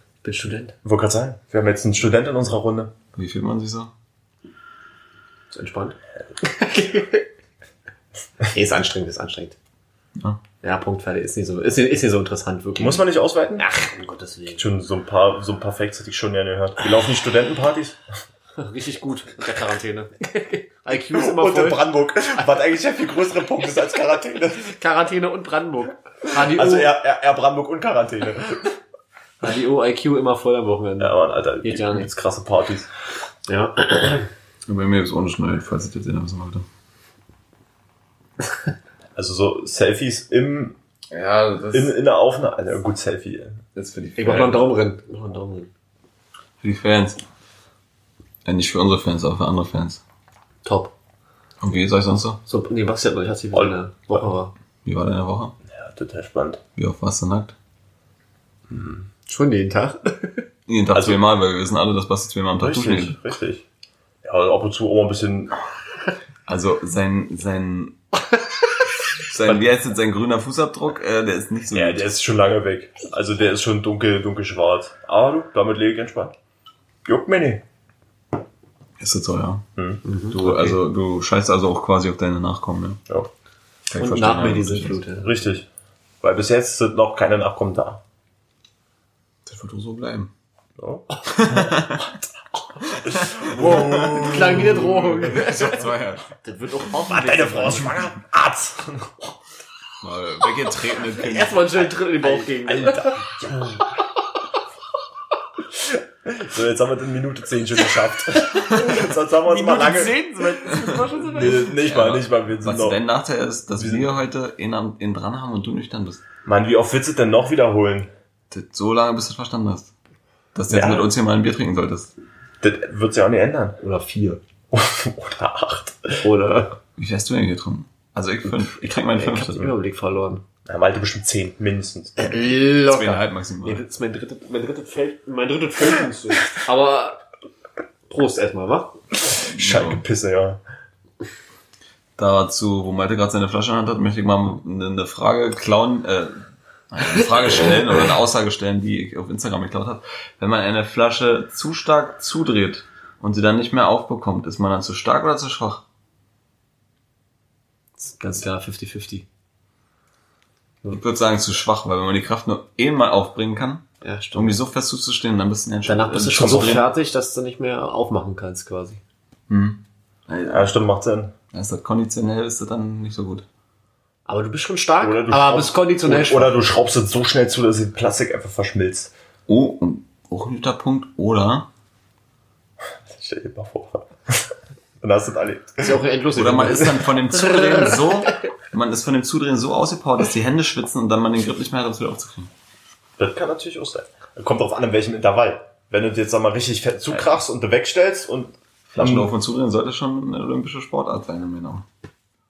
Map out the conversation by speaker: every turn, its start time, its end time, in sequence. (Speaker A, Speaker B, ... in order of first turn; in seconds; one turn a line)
Speaker A: 0.2-0.8
Speaker B: 0.8-2.9
Speaker C: 3.2-3.9
Speaker A: 5.5-7.3
Speaker A: 8.4-9.6
Speaker A: 10.6-14.7
Speaker B: 12.8-13.7
Speaker B: 14.5-18.0
Speaker A: 18.6-22.5
Speaker B: 21.0-24.7
Speaker A: 24.5-26.9
Speaker B: 26.3-28.8
Speaker A: 29.4-32.1
Speaker B: 31.0-32.9
Speaker A: 33.5-34.3
Speaker C: 34.7-36.7
Speaker B: 39.2-40.8
Speaker C: 41.1-42.0
Speaker B: 41.7-43.6
Speaker C: 43.8-44.7
Speaker A: 44.2-45.7
Speaker C: 46.6-47.2
Speaker C: 48.5-50.0
Speaker A: 50.6-50.9
Speaker C: 51.6-52.4
Speaker A: 52.5-54.5
Speaker B: 53.5-54.2
Speaker C: 54.9-55.5
Speaker B: 55.7-56.6
Speaker C: 56.8-57.5
Speaker B: 58.7-59.1
Speaker A: 59.3-60.5
Speaker C: 60.7-63.2
Speaker B: 60.9-61.2
Speaker B: 62.6-63.6
Speaker B: 64.2-65.5
Speaker C: 66.5-68.0
Speaker C: 69.2-72.0
Speaker B: 71.7-76.3
Speaker B: 77.1-77.6
Speaker C: 79.0-79.7
Speaker B: 79.8-80.7
Speaker A: 80.0-80.7
Speaker C: 80.3-83.0
Speaker C: 83.9-85.0
Speaker A: 84.0-85.4
Speaker B: 84.4-85.7
Speaker B: 86.2-88.0
Speaker C: 89.5-90.3
Speaker B: 90.8-92.3
Speaker C: 91.3-92.1
Speaker C: 92.8-96.3
Speaker B: 93.3-95.2
Speaker A: 93.5-95.9
Speaker A: 96.4-98.0
Speaker B: 97.1-99.2
Speaker C: 100.0-101.8
Speaker A: 101.2-103.3
Speaker B: 102.1-104.0
Speaker B: 105.7-110.2
Speaker A: 108.3-111.8
Speaker C: 110.7-116.2
Speaker B: 111.3-113.0
Speaker B: 113.8-114.2
Speaker B: 116.5-118.1
Speaker C: 118.5-119.9
Speaker C: 120.5-122.1
Speaker B: 120.7-121.1
Speaker B: 122.6-123.8
Speaker A: 123.8-124.4
Speaker B: 124.7-126.2
Speaker A: 126.2-126.8
Speaker C: 127.0-129.7
Speaker A: 128.9-130.4
Speaker B: 130.7-132.4
Speaker A: 132.2-137.2
Speaker C: 132.9-133.8
Speaker A: 138.1-138.9
Speaker B: 139.2-140.6
Speaker C: 139.6-140.0
Speaker C: 142.2-155.8
Speaker A: 158.0-159.2
Speaker C: 160.9-166.9
Speaker A: 164.0-164.6
Speaker A: 165.8-169.0
Speaker B: 166.3-166.8
Speaker C: 169.5-170.8
Speaker B: 170.5-171.3
Speaker C: 171.5-173.4
Speaker A: 174.3-176.6
Speaker B: 175.0-179.1
Speaker C: 179.5-181.7
Speaker B: 182.8-186.0
Speaker A: 185.8-188.3
Speaker C: 186.3-192.5
Speaker B: 193.2-199.3
Speaker C: 198.9-201.8